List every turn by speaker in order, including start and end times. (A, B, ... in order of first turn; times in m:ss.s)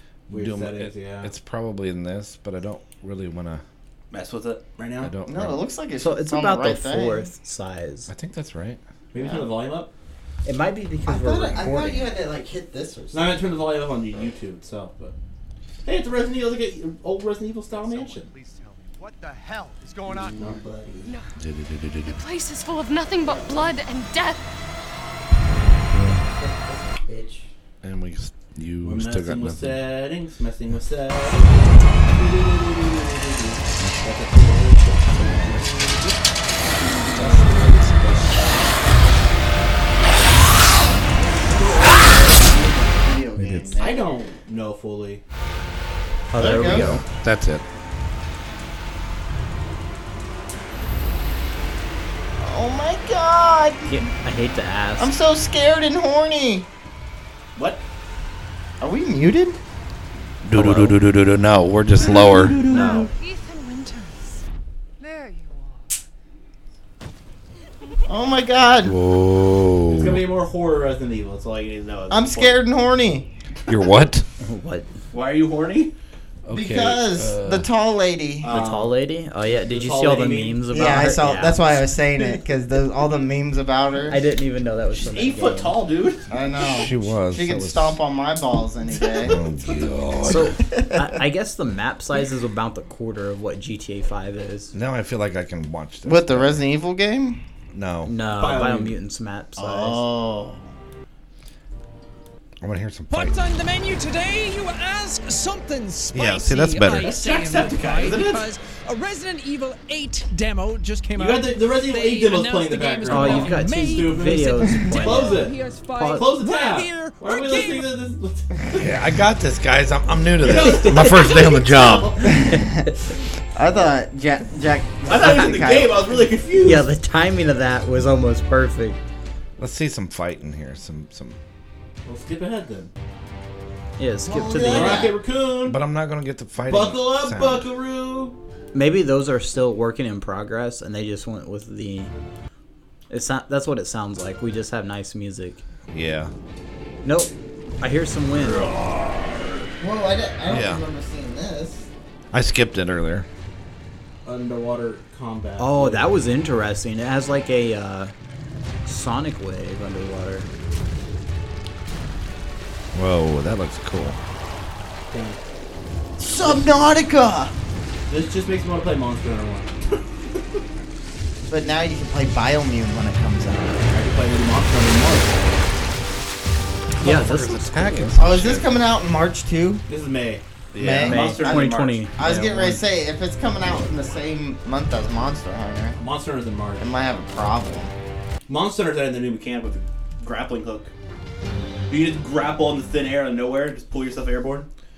0:00.3-0:01.3 A
0:00.3-0:03.6 B
0:04.1-0:05.1 A
0:05.0-0:05.6 B
0:05.2-0:07.3 C
0:06.0-0:08.1 D
0:08.1-0:08.8 B
0:09.1-0:09.9 A
0:09.2-0:09.5 C
0:10.4-0:12.1 D
0:11.1-0:13.5 C
0:13.1-0:15.2 A
0:15.8-0:18.3 A
0:17.7-0:20.4 E
0:20.1-0:21.0 A
0:21.0-0:21.3 F
0:21.4-0:22.2 B
0:22.0-0:24.4 F
0:25.9-0:26.2 B
0:27.8-0:29.9 B
0:28.8-0:36.2 A
0:37.0-0:38.6 A
0:41.4-0:42.5 A
0:41.8-0:44.1 C
0:43.4-0:43.7 B
0:43.8-0:45.2 A
0:46.3-0:47.0 D
0:46.3-0:47.0 C
0:46.4-0:47.6 B
0:52.4-0:53.9 C
0:53.9-0:55.1 D
0:55.0-0:56.7 C
0:57.6-0:57.8 A
0:58.8-0:59.6 C
1:00.4-1:02.6 B
1:00.5-1:01.0 D
1:02.0-1:03.1 A
1:02.1-1:04.4 F
1:02.7-1:03.1 D
1:02.8-1:03.1 C
1:05.0-1:05.9 F
1:08.1-1:09.0 C
1:08.8-1:10.2 B
1:09.9-1:12.6 A
1:12.1-1:13.3 C
1:13.7-1:14.2 B
1:14.4-1:14.9 D
1:15.1-1:15.9 A
1:16.4-1:17.7 B
1:16.5-1:18.6 C
1:18.4-1:18.9 A
1:18.5-1:21.7 D
1:19.6-1:21.1 A
1:20.7-1:24.2 C
1:24.1-1:25.8 D
1:25.0-1:26.2 A
1:26.3-1:29.4 C
1:26.6-1:28.0 B
1:29.2-1:30.6 B
1:30.2-1:34.7 D
1:30.6-1:31.0 C
1:34.7-1:36.6 B
1:36.0-1:37.4 C
1:37.7-1:38.1 B
1:38.1-1:40.1 D
1:38.3-1:39.0 A
1:39.6-1:40.7 C
1:42.6-1:43.4 B
1:43.1-1:58.0 G
1:46.1-1:47.1 B
1:47.0-1:48.5 A
1:51.2-1:55.6 A
1:53.1-1:56.3 D
1:56.1-1:58.9 A
1:58.7-2:02.4 B
2:00.4-2:02.4 A
2:00.8-2:01.2 D
2:02.2-2:03.0 C
2:03.5-2:06.2 C
2:05.0-2:06.9 A
2:06.6-2:09.0 D
2:09.6-2:11.4 B
2:12.0-2:12.9 A
2:14.0-2:15.1 D
2:14.3-2:15.2 C
2:14.7-2:15.8 A
2:15.6-2:17.7 B
2:16.7-2:18.4 A
2:18.7-2:22.1 D
2:23.1-2:25.6 D
2:25.9-2:26.3 B
2:27.0-2:28.7 D
2:29.8-2:31.9 C
2:30.5-2:30.8 B
2:32.3-2:33.3 B
2:34.2-2:36.2 A
2:35.6-2:38.1 D
2:38.8-2:40.5 D
2:42.9-2:44.2 B
2:45.1-2:45.4 A
2:46.2-2:47.5 C
2:48.1-2:50.0 A
2:51.5-2:53.9 C
2:53.9-2:55.4 A
2:57.0-2:58.8 B
2:57.0-2:58.2 D
2:58.2-2:59.8 C
2:59.9-3:00.4 A
3:00.7-3:01.2 B
3:00.8-3:06.0 C
3:01.0-3:02.1 A
3:01.0-3:02.8 D
3:06.0-3:06.9 A
3:06.8-3:07.9 C
3:08.5-3:10.9 A
3:11.9-3:14.7 A